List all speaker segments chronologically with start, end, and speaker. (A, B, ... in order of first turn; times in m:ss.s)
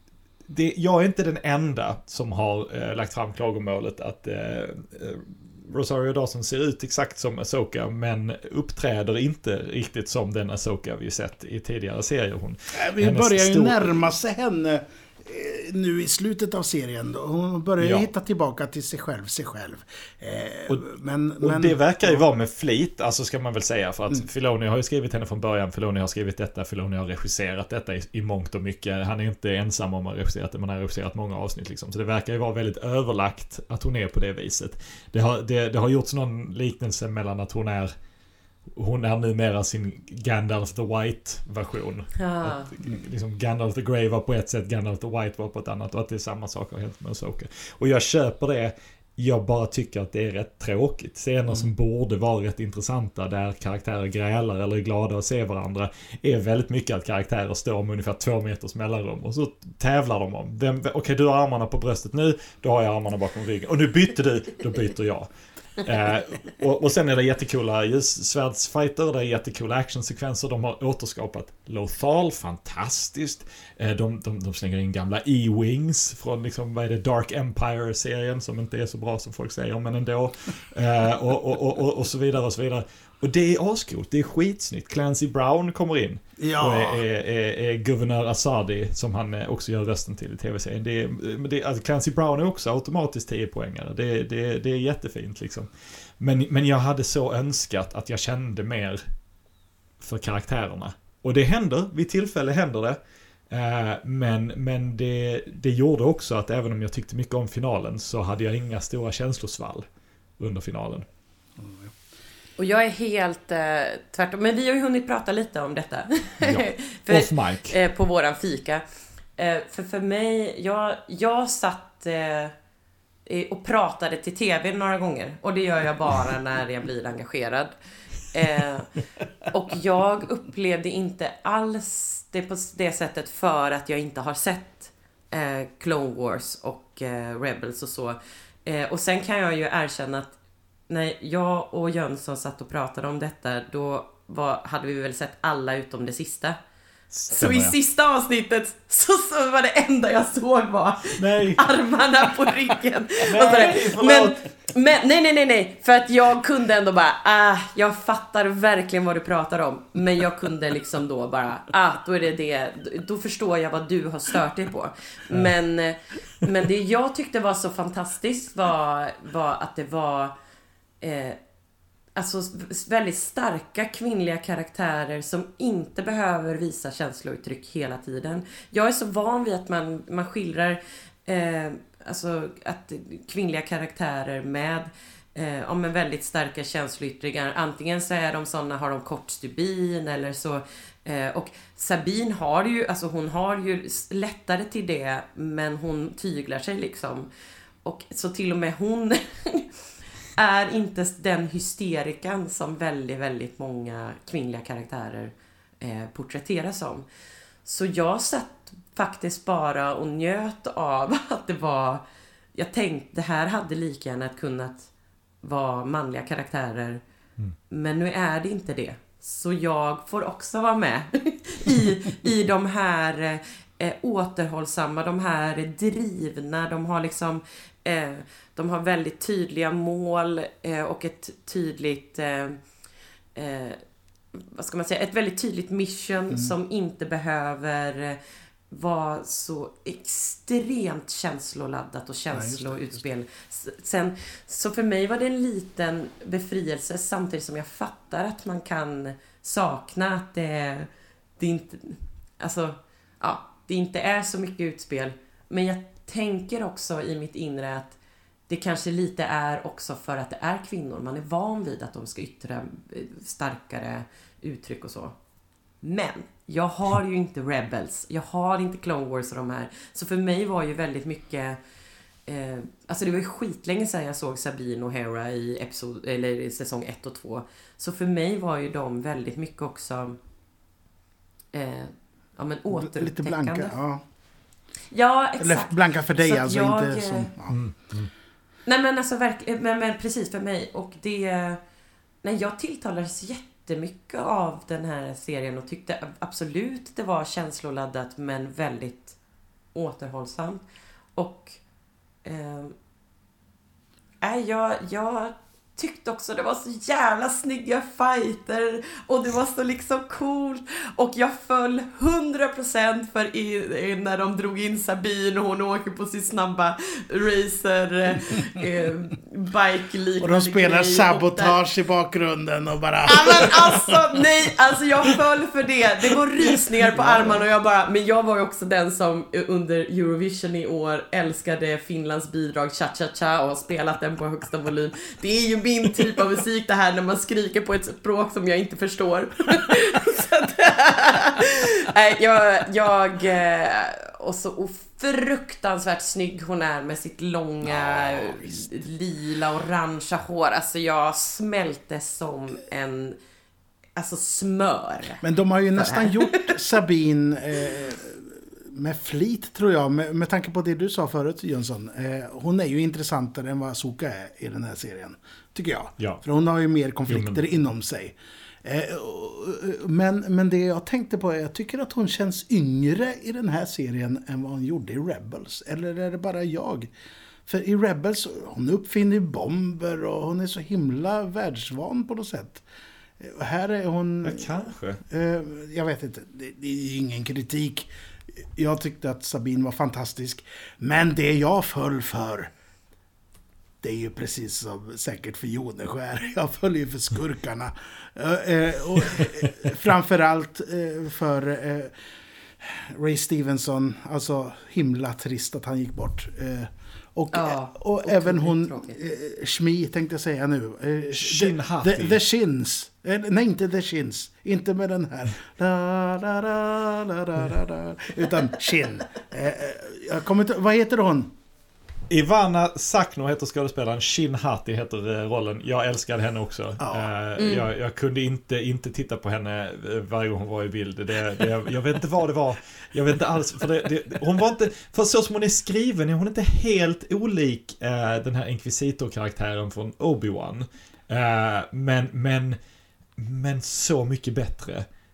0:00.5-0:14.0 A
0:12.7-0:22.2 B
0:17.8-0:18.1 A
0:21.4-0:37.9 A
0:38.7-1:39.0 A
0:42.2-0:42.7 C
1:26.4-1:27.0 B
1:40.0-1:43.0 A
1:43.5-1:49.8 A
1:50.4-1:51.0 A
1:51.6-1:51.9 B
1:52.6-1:58.8 C
1:56.4-1:57.8 A
1:59.4-2:02.5 C
2:03.2-2:07.7 C
2:08.3-2:08.9 C
2:09.4-2:20.3 C
2:20.9-2:26.6 C
2:27.1-2:27.7 A
2:27.3-2:50.3 C
2:31.2-2:31.6 A
2:33.2-2:34.4 A
2:51.0-2:51.4 C
2:52.1-3:17.3 C
3:17.8-3:19.7 C
3:20.4-3:27.0 C
3:27.6-3:32.0 C
3:32.5-3:34.9 C
3:35.4-3:37.0 C
3:37.7-3:52.6 C
3:53.3-3:53.8 C
3:54.3-3:58.2 C
3:58.7-4:18.0 C
4:02.3-4:03.0 B
4:18.5-4:25.2 C
4:25.8-4:31.6 C
4:32.3-4:40.2 C
4:41.5-4:43.7 C
4:42.7-4:44.0 B
4:44.9-4:47.3 C
4:45.4-4:47.6 B
4:47.5-4:48.1 A
4:48.7-4:51.6 C
4:52.2-4:59.2 C
4:59.7-5:00.6 C
5:01.2-5:01.6 C
5:02.2-5:02.7 C
5:04.2-5:21.6 C
5:20.2-5:24.2 B
5:23.0-5:53.2 C
5:26.5-5:27.4 B
5:47.6-5:48.7 B
5:54.0-5:55.2 C
5:55.2-6:16.9 B
5:55.8-5:56.6 C
6:07.1-6:07.5 A
6:17.5-6:22.6 B
6:23.2-6:27.9 B
6:24.2-6:25.0 A
6:28.4-6:32.5 B
6:33.8-6:41.9 B
6:42.6-7:01.3 B
6:47.3-6:49.0 C
6:51.1-6:52.2 A
7:02.1-7:22.6 A
7:06.8-7:07.1 B
7:07.4-7:07.7 C
7:23.2-7:24.8 A